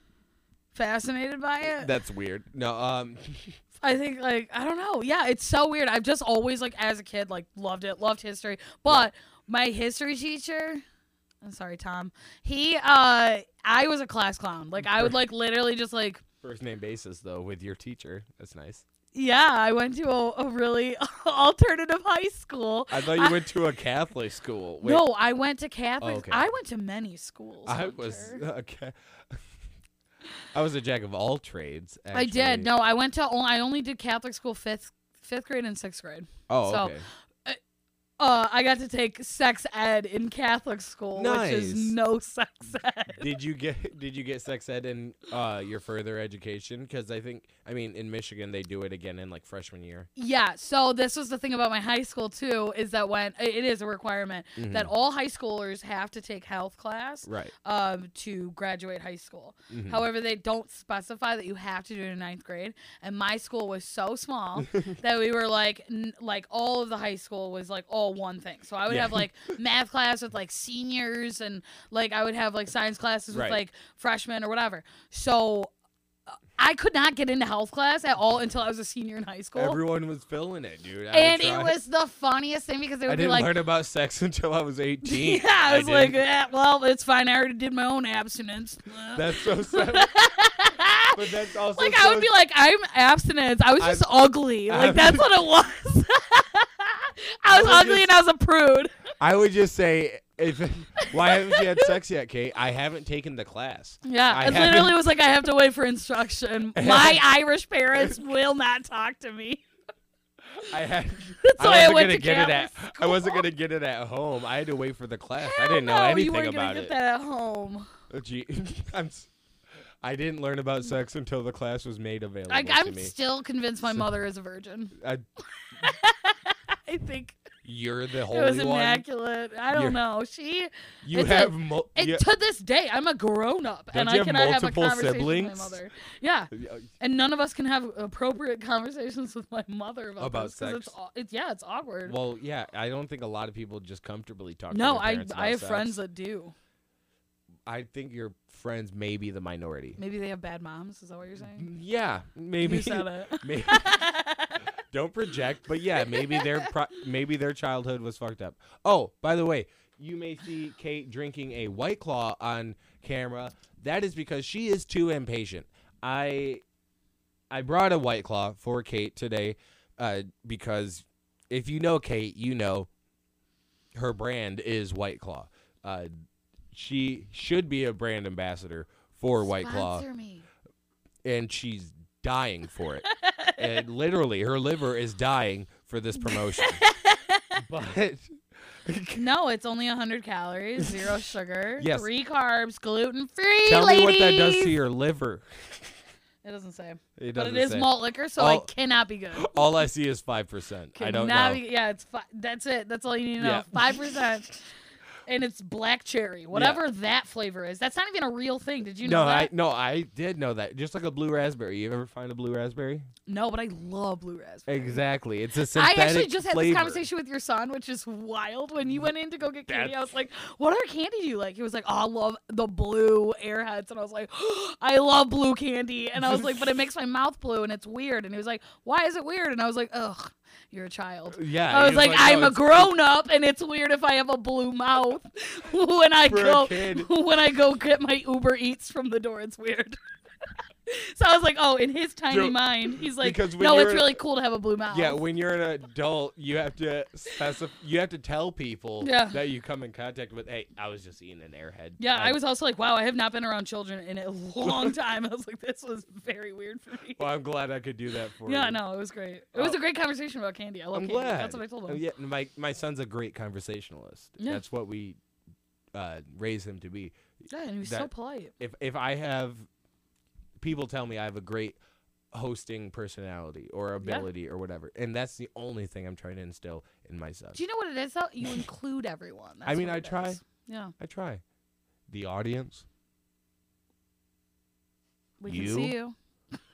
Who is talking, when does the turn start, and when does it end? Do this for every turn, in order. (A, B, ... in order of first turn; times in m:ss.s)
0:00.7-0:01.9 A
0:01.6-0:03.6 B
0:03.8-0:10.8 A
0:11.4-0:16.2 A
0:14.8-0:15.2 B
0:16.4-0:18.8 B
0:19.1-0:23.4 A
0:22.9-0:25.0 B
0:24.8-0:28.4 A
0:26.0-0:26.5 B
0:27.7-0:29.4 B
0:30.5-0:32.7 B
0:32.1-0:36.9 A
0:36.5-0:37.1 B
0:38.2-0:43.3 A
0:41.2-0:42.0 B
0:43.2-0:50.1 B
0:50.2-1:15.7 A
0:54.6-0:54.9 B
0:57.2-0:57.5 B
0:59.7-1:00.0 B
1:08.9-1:09.3 B
1:13.3-1:13.6 B
1:16.6-1:19.8 A
1:19.6-1:21.8 B
1:21.1-1:23.5 A
1:23.1-1:26.2 B
1:25.0-1:31.2 A
1:29.1-1:30.1 B
1:31.1-1:32.3 B
1:31.8-1:38.9 A
1:33.8-1:35.3 B
1:37.5-1:38.1 B
1:39.2-1:45.0 B
1:41.0-1:41.9 A
1:44.0-1:49.6 A
1:46.8-1:47.3 B
1:50.6-1:57.0 B
1:51.4-1:53.4 A
1:55.4-1:57.9 A
1:58.1-1:59.3 B
2:00.0-2:03.1 B
2:02.5-2:05.0 A
2:05.0-2:05.2 B
2:05.8-2:07.4 A
2:07.6-2:09.0 B
2:08.3-2:22.2 A
2:09.7-2:10.0 B
2:11.0-2:12.2 B
2:13.9-2:15.8 B
2:16.5-2:16.9 B
2:20.2-2:21.0 B
2:22.1-2:26.0 B
2:24.7-2:26.5 A
2:27.7-2:30.0 B
2:30.0-2:31.7 A
2:31.5-2:34.1 B
2:32.6-2:34.6 A
2:34.9-2:46.6 B
2:36.0-2:36.7 A
2:47.5-2:52.9 B
2:53.9-2:56.1 B
2:56.7-3:00.0 B
2:59.4-3:00.5 A
3:01.2-3:03.1 B
3:03.1-3:03.7 A
3:03.6-3:06.8 B
3:06.2-3:07.6 A
3:07.6-3:09.3 B
3:09.2-3:14.8 A
3:11.8-3:12.1 B
3:13.6-3:15.9 B
3:16.4-3:19.6 A
3:17.2-3:18.7 B
3:19.3-3:21.6 B
3:21.0-3:24.6 A
3:23.4-3:24.0 B
3:25.3-3:29.5 A
3:26.5-3:26.8 B
3:29.0-3:33.1 B
3:33.3-3:35.0 A
3:34.7-3:37.0 B
3:35.7-4:00.0 A
3:39.7-3:40.1 B
3:46.2-3:46.8 B
3:51.3-3:52.9 B
3:56.3-3:57.1 B
4:00.9-4:05.2 A
4:02.3-4:04.2 B
4:04.9-4:12.4 B
4:09.0-4:09.4 A
4:12.0-4:17.3 A
4:14.6-4:15.0 B
4:17.2-4:18.8 B
4:18.5-4:22.0 A
4:19.5-4:19.8 B
4:20.9-4:25.2 B
4:25.9-4:27.2 B
4:27.5-4:28.5 A
4:27.8-4:29.7 B
4:30.6-4:31.8 B
4:32.3-4:37.6 B
4:34.0-4:34.3 A
4:37.5-4:40.9 A
4:39.6-4:40.4 B
4:41.0-4:41.4 B
4:42.1-4:42.9 B
4:45.4-4:46.2 A
4:45.5-4:46.0 B